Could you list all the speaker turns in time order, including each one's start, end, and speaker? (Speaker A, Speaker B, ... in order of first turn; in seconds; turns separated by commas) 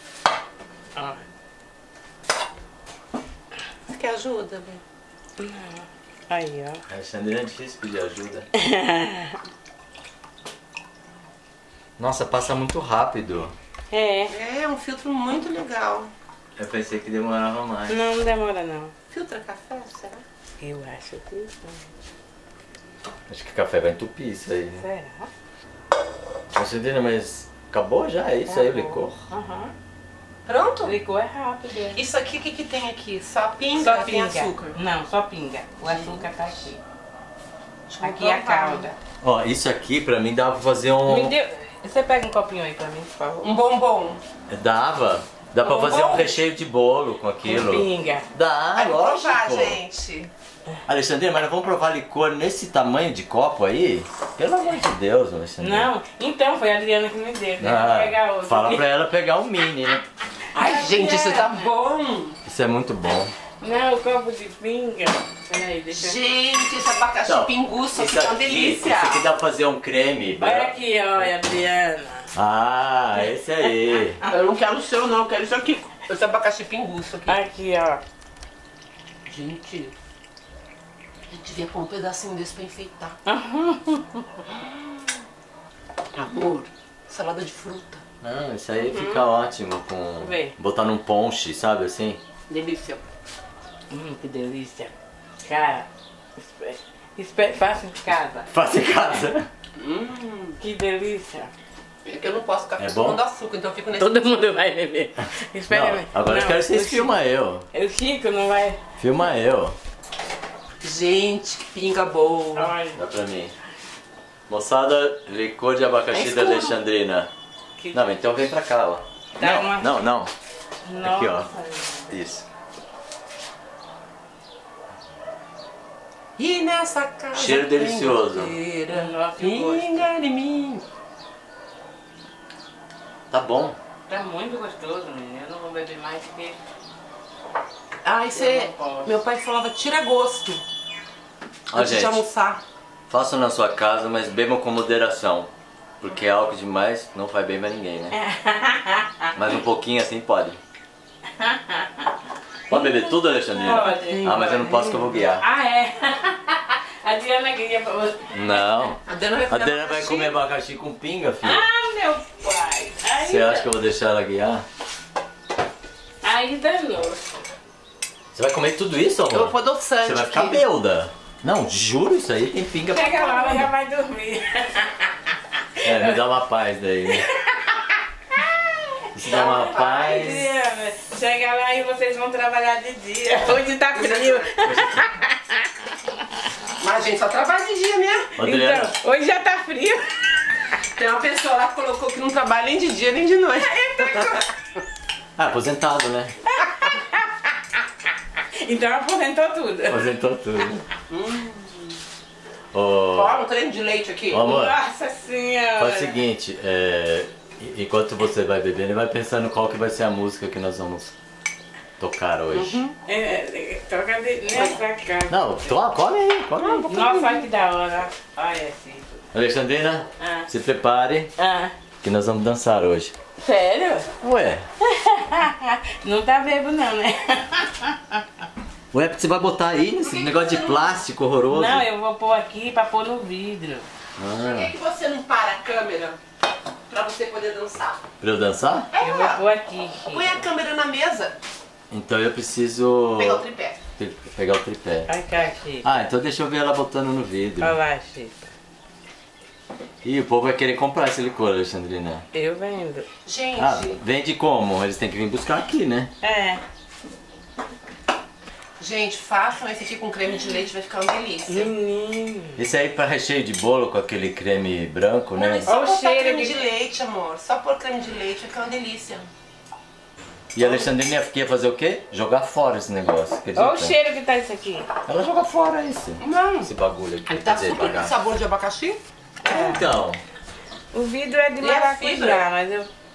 Speaker A: 0.9-1.2, Speaker B: 3.9-4.8, Speaker A: 5.4-6.8, Speaker C: 6.9-8.5, Speaker A: 8.6-9.4, Speaker C: 12.0-13.5, Speaker A: 13.9-14.3, Speaker B: 14.3-16.1, Speaker C: 16.6-18.1, Speaker A: 17.9-18.9, Speaker B: 19.1-20.2, Speaker A: 20.6-21.9, Speaker C: 23.3-24.9, Speaker A: 24.8-25.3, Speaker C: 26.6-29.1, Speaker A: 28.5-29.7, Speaker B: 30.4-30.9, Speaker A: 30.8-32.0, Speaker B: 31.9-34.7, Speaker A: 33.8-36.8, Speaker B: 35.9-36.4, Speaker B: 37.9-38.9, Speaker A: 38.0-39.0, Speaker C: 39.2-41.3, Speaker A: 41.1-43.5, Speaker B: 43.4-44.2, Speaker C: 44.5-49.8, Speaker B: 45.6-46.3, Speaker A: 47.4-48.3, Speaker B: 48.8-50.3, Speaker C: 50.9-55.9, Speaker A: 55.6-58.9, Speaker C: 57.6-60.0, Speaker A: 60.5-61.6, Speaker B: 60.5-62.4, Speaker C: 62.4-63.3, Speaker A: 63.6-66.2, Speaker B: 65.9-69.3, Speaker C: 67.3-71.3, Speaker A: 70.4-72.3, Speaker C: 72.3-74.2, Speaker B: 74.3-77.4, Speaker A: 77.3-78.0, Speaker B: 79.3-79.9, Speaker B: 81.3-83.2, Speaker A: 83.3-84.6, Speaker B: 86.1-88.0, Speaker C: 88.2-92.2, Speaker A: 88.8-89.2, Speaker A: 90.2-90.5, Speaker B: 92.5-93.0, Speaker A: 93.9-95.9, Speaker A: 96.4-98.5, Speaker C: 98.5-99.5, Speaker B: 99.8-100.6, Speaker A: 100.6-101.5, Speaker B: 102.0-104.3, Speaker C: 102.8-103.2, Speaker A: 104.0-107.1, Speaker C: 105.7-107.6, Speaker A: 107.7-108.8, Speaker C: 109.0-109.8, Speaker B: 110.8-112.7, Speaker A: 112.5-113.0, Speaker C: 112.9-113.5, Speaker C: 114.5-117.3, Speaker B: 116.1-116.7, Speaker A: 117.8-118.2, Speaker C: 117.9-120.3, Speaker A: 119.4-119.9, Speaker A: 120.9-122.1, Speaker C: 121.0-121.5, Speaker C: 122.1-122.5, Speaker B: 126.4-130.8, Speaker C: 127.3-128.6, Speaker A: 128.9-130.1, Speaker C: 133.3-133.8, Speaker A: 134.1-136.6, Speaker B: 138.0-140.6, Speaker A: 138.3-139.1, Speaker C: 141.7-142.2, Speaker B: 141.7-142.6, Speaker C: 143.1-148.2, Speaker A: 148.1-149.3, Speaker C: 149.3-150.6, Speaker A: 151.4-152.1, Speaker C: 152.7-155.4, Speaker A: 152.7-158.6, Speaker B: 153.9-154.4, Speaker C: 158.3-161.7, Speaker B: 159.1-160.3, Speaker A: 161.4-163.7, Speaker C: 163.2-164.6, Speaker A: 166.2-167.4, Speaker C: 168.3-173.7, Speaker B: 169.3-170.6, Speaker A: 172.9-175.1, Speaker A: 175.8-176.2, Speaker C: 175.8-177.2, Speaker A: 177.2-178.4, Speaker C: 179.1-180.5, Speaker B: 179.3-180.4, Speaker A: 179.3-185.7, Speaker B: 183.9-184.5, Speaker C: 184.6-185.1, Speaker B: 186.8-188.3, Speaker C: 188.4-188.9, Speaker A: 188.4-190.1, Speaker B: 190.9-194.5, Speaker A: 193.8-194.2, Speaker C: 195.4-196.3, Speaker A: 196.5-197.5, Speaker A: 198.6-200.1, Speaker C: 199.9-200.8, Speaker B: 201.1-201.9, Speaker C: 202.7-203.4, Speaker B: 203.1-204.5, Speaker C: 204.3-204.8, Speaker A: 204.4-206.2, Speaker C: 205.8-211.1, Speaker C: 212.0-212.8, Speaker B: 212.5-212.9, Speaker A: 213.1-215.4, Speaker C: 215.3-216.9, Speaker B: 216.6-217.5, Speaker A: 216.9-219.2, Speaker C: 219.3-221.3, Speaker A: 220.2-220.5, Speaker A: 221.4-221.7, Speaker C: 222.0-223.1, Speaker A: 223.4-224.1, Speaker C: 224.2-224.7, Speaker A: 224.8-228.2, Speaker C: 228.9-231.8, Speaker B: 230.1-231.0, Speaker A: 231.5-233.9, Speaker C: 234.2-234.7, Speaker B: 234.4-236.2, Speaker B: 236.9-238.0, Speaker C: 238.2-238.9, Speaker B: 238.9-239.4, Speaker A: 239.0-240.4, Speaker B: 240.1-241.4, Speaker C: 241.9-243.4, Speaker B: 243.2-243.8, Speaker C: 244.0-245.1, Speaker A: 245.1-245.9, Speaker C: 245.8-247.8, Speaker A: 247.6-248.5, Speaker C: 250.0-252.2, Speaker A: 252.3-253.1, Speaker B: 253.2-254.0, Speaker C: 253.6-256.1, Speaker A: 256.2-256.6, Speaker B: 258.8-261.7, Speaker A: 261.5-262.6, Speaker C: 262.6-265.7, Speaker B: 265.4-269.3, Speaker A: 265.7-266.6, Speaker C: 270.6-273.9, Speaker B: 270.6-270.9, Speaker A: 273.6-274.9, Speaker C: 275.1-278.1, Speaker B: 276.2-276.7, Speaker B: 277.3-279.0, Speaker A: 279.4-279.8, Speaker C: 279.5-280.2, Speaker A: 280.9-282.9, Speaker B: 281.6-282.4